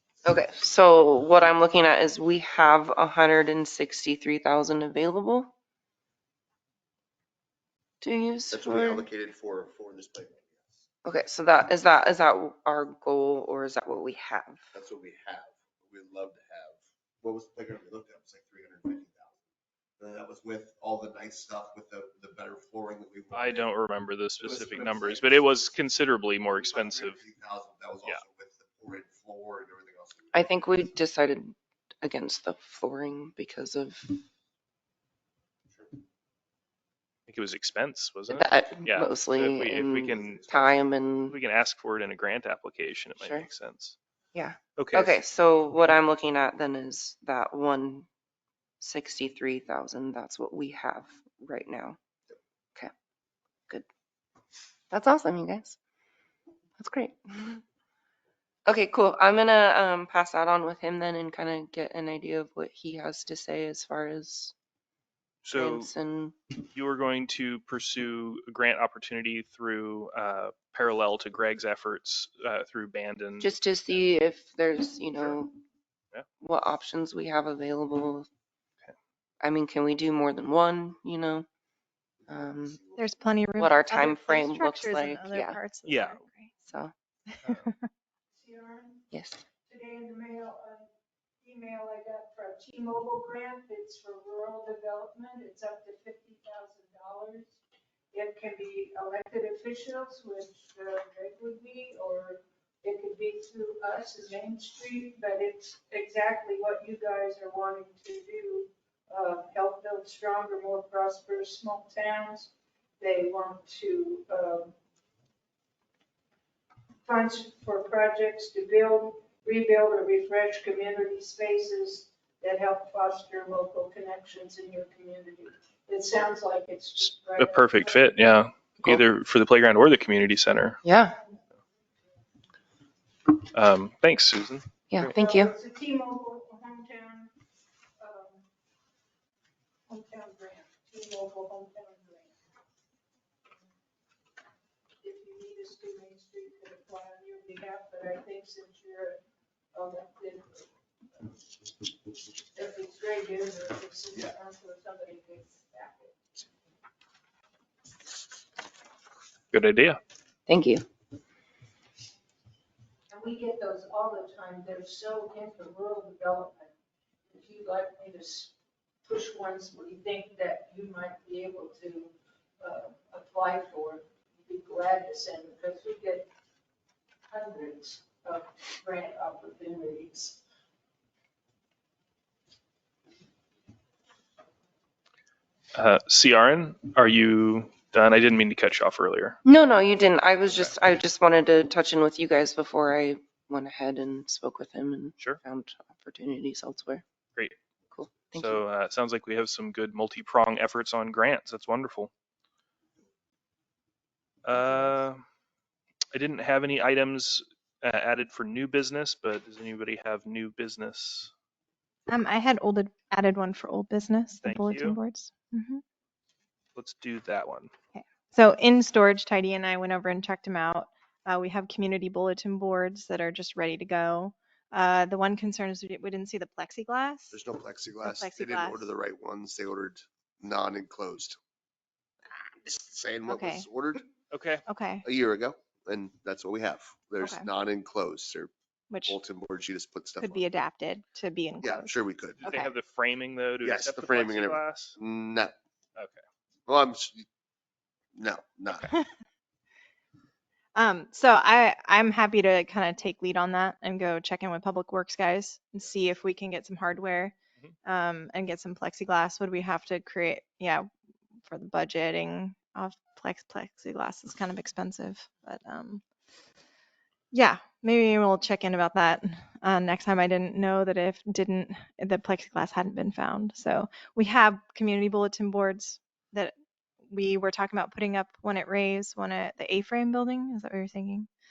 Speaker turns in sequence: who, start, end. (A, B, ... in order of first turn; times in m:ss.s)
0:00.2-0:05.5 A
0:08.0-0:09.1 A
0:08.5-0:10.7 B
0:11.0-0:14.6 A
0:14.7-0:19.4 B
0:20.0-0:23.7 B
0:23.3-0:27.2 C
0:24.4-0:25.8 B
0:26.5-0:30.6 B
0:30.3-0:34.2 A
0:37.3-0:40.7 C
0:38.3-0:41.4 A
0:41.3-0:44.0 C
0:43.2-0:43.5 A
0:44.3-0:48.1 A
0:44.8-0:45.2 C
0:48.8-0:52.0 A
0:54.9-0:55.8 A
0:56.8-0:57.6 A
0:58.7-1:04.5 A
1:05.4-1:05.9 C
1:05.5-1:06.5 A
1:06.6-1:13.5 C
1:13.4-1:15.6 A
1:16.4-1:18.3 A
1:19.4-1:21.5 A
1:22.2-1:23.2 B
1:22.3-1:22.8 A
1:23.0-1:26.6 D
1:23.6-1:25.6 A
1:25.8-1:26.2 C
1:26.6-1:26.9 A
1:27.3-1:27.7 D
1:27.4-1:27.7 C
1:28.4-1:29.0 E
1:29.1-1:29.4 A
1:29.7-1:30.9 E
1:31.4-1:37.6 E
1:38.1-1:54.7 E
1:57.0-2:08.4 E
2:07.0-2:10.8 C
2:10.8-2:11.2 A
2:13.4-2:15.2 C
2:14.9-2:15.5 A
2:15.1-2:17.3 E
2:18.0-2:18.4 E
2:19.9-2:22.3 E
2:25.0-2:29.2 E
2:29.7-2:30.7 E
2:32.5-2:36.2 E
2:39.5-2:40.0 C
2:40.5-2:40.9 A
2:43.1-2:46.7 E
2:47.3-2:48.5 E
2:49.1-2:56.3 E
2:57.3-3:00.4 E
3:05.8-3:09.4 C
3:09.4-3:17.0 A
3:17.9-3:18.6 A
3:18.3-3:22.1 C
3:24.4-3:25.2 C
3:26.1-3:31.3 C
3:32.1-3:35.8 D
3:34.4-3:35.0 C
3:36.8-3:37.7 C
3:37.9-3:47.4 D
3:47.3-3:51.4 B
3:48.0-3:48.9 D
3:52.5-3:54.0 B
3:53.3-3:53.7 D
3:54.3-3:54.6 C
3:54.7-3:55.0 D
3:55.0-3:58.5 B
3:57.2-3:57.5 D
3:58.9-3:59.2 D
3:59.1-4:00.4 B
4:00.2-4:02.7 D
4:01.6-4:02.4 B
4:02.4-4:05.0 C
4:03.6-4:05.6 B
4:06.0-4:06.2 C
4:06.7-4:07.3 B
4:08.2-4:08.9 B
4:10.8-4:20.9 D
4:21.4-4:26.0 D
4:27.3-4:36.5 D
4:37.1-4:41.3 D